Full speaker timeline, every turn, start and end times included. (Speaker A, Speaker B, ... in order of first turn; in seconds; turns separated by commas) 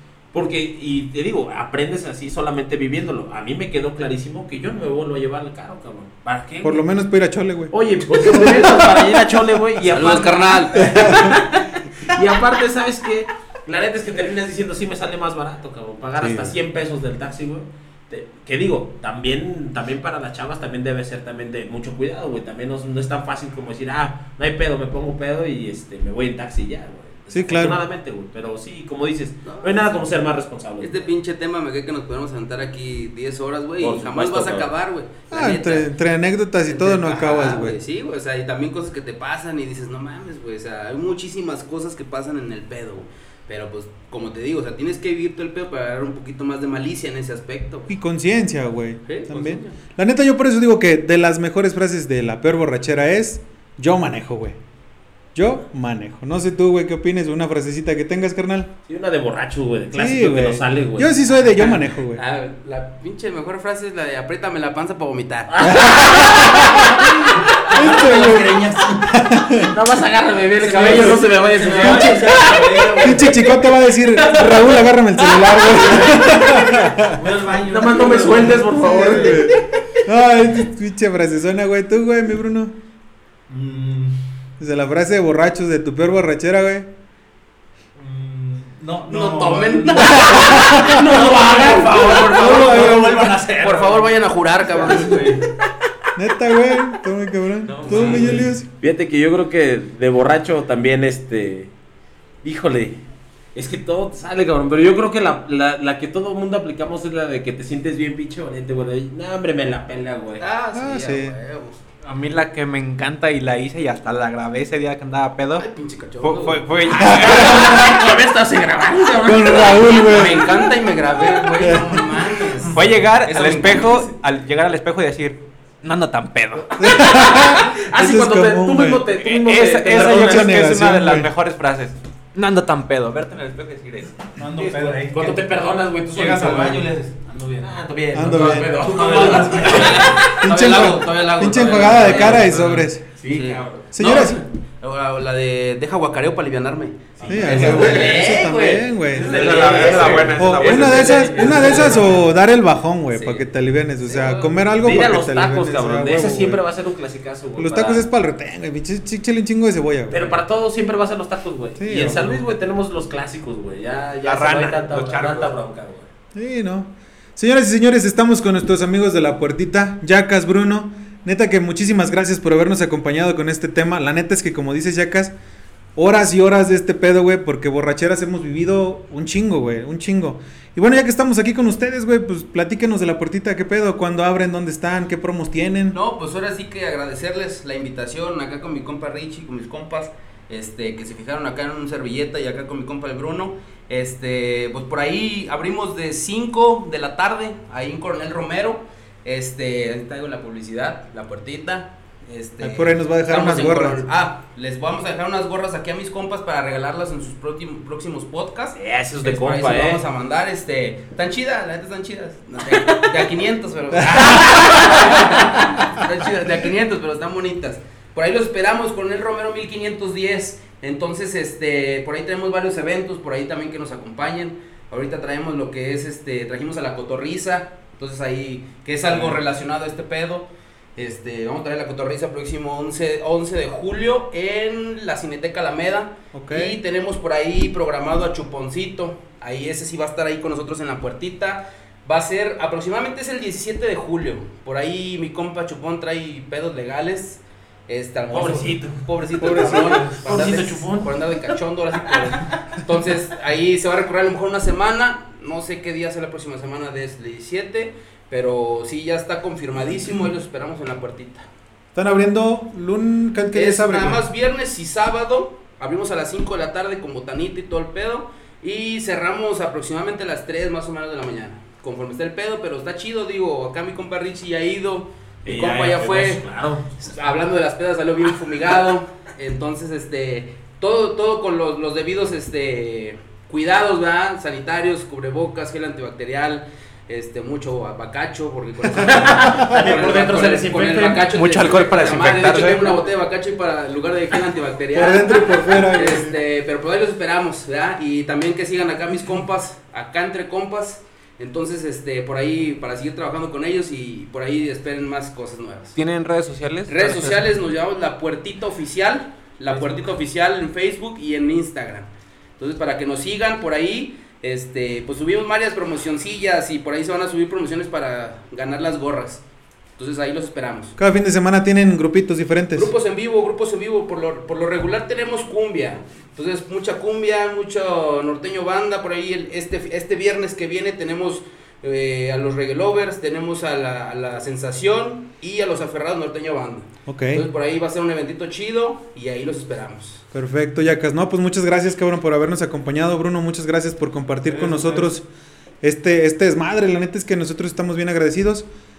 Speaker A: 0.3-6.9, Speaker B: 6.6-7.7, Speaker A: 7.7-31.1, Speaker B: 8.2-8.6, Speaker C: 9.9-11.2, Speaker B: 10.8-11.3, Speaker B: 16.2-16.5, Speaker B: 27.3-27.8, Speaker C: 29.4-30.1, Speaker C: 30.8-35.9, Speaker A: 33.8-34.7, Speaker B: 35.3-37.8, Speaker C: 36.7-47.9, Speaker B: 47.9-54.6, Speaker C: 49.1-49.8, Speaker B: 55.4-58.7, Speaker A: 58.9-61.8, Speaker B: 59.9-62.2, Speaker C: 62.1-65.5, Speaker A: 65.5-66.8, Speaker B: 65.6-69.7, Speaker D: 67.6-69.3, Speaker A: 69.6-73.3, Speaker D: 70.6-73.4, Speaker B: 70.8-71.2, Speaker B: 71.8-72.3, Speaker B: 73.0-77.2, Speaker A: 74.2-76.4, Speaker D: 75.8-79.5, Speaker A: 77.5-79.6, Speaker B: 78.8-82.8, Speaker D: 83.5-84.2, Speaker B: 84.6-86.9, Speaker D: 88.0-94.2, Speaker C: 89.1-95.4, Speaker A: 90.1-93.3, Speaker D: 94.7-95.5, Speaker B: 96.2-98.7, Speaker A: 97.7-101.7, Speaker D: 97.8-98.5, Speaker A: 102.4-103.0, Speaker A: 103.5-110.5, Speaker C: 110.4-111.8, Speaker B: 110.7-111.4, Speaker E: 112.0-115.7, Speaker C: 115.6-116.6, Speaker E: 116.2-117.6, Speaker B: 117.0-118.0, Speaker A: 117.0-120.4, Speaker B: 119.2-120.7, Speaker C: 120.0-124.1, Speaker B: 121.5-122.8, Speaker E: 122.7-126.8, Speaker A: 126.7-130.6, Speaker B: 126.8-129.0, Speaker E: 129.2-135.1, Speaker B: 129.9-131.3, Speaker D: 134.4-135.4, Speaker A: 135.1-136.8, Speaker D: 136.1-140.2, Speaker A: 137.6-140.3, Speaker B: 138.1-138.7, Speaker C: 139.2-142.6, Speaker B: 140.3-143.1, Speaker A: 141.9-143.8, Speaker C: 143.3-148.5, Speaker B: 143.9-144.4, Speaker A: 147.2-152.2, Speaker B: 147.3-149.3, Speaker C: 149.2-152.2, Speaker E: 149.2-152.0, Speaker B: 150.3-156.6, Speaker C: 153.1-153.5, Speaker C: 154.0-154.6, Speaker A: 154.8-158.1, Speaker B: 157.6-160.4, Speaker A: 160.1-166.1, Speaker B: 161.8-162.4, Speaker E: 164.2-165.6, Speaker B: 166.3-175.3, Speaker B: 176.0-186.0, Speaker C: 185.9-261.5, Speaker B: 202.6-204.1, Speaker A: 208.8-210.0, Speaker B: 214.0-214.4, Speaker A: 214.2-215.0, Speaker B: 229.1-229.4, Speaker B: 236.3-236.8, Speaker A: 248.3-251.5, Speaker B: 249.4-250.6, Speaker B: 261.9-264.2, Speaker C: 263.5-276.4, Speaker A: 275.4-276.9, Speaker C: 277.0-305.9, Speaker A: 288.9-291.3, Speaker E: 291.3-293.0, Speaker B: 294.9-296.4, Speaker E: 305.9-307.4, Speaker C: 306.9-319.4, Speaker E: 309.7-310.0, Speaker C: 320.0-321.0, Speaker B: 321.0-322.9, Speaker C: 322.8-340.2, Speaker B: 337.1-337.4, Speaker B: 340.3-345.3, Speaker C: 344.5-345.1, Speaker B: 345.8-348.7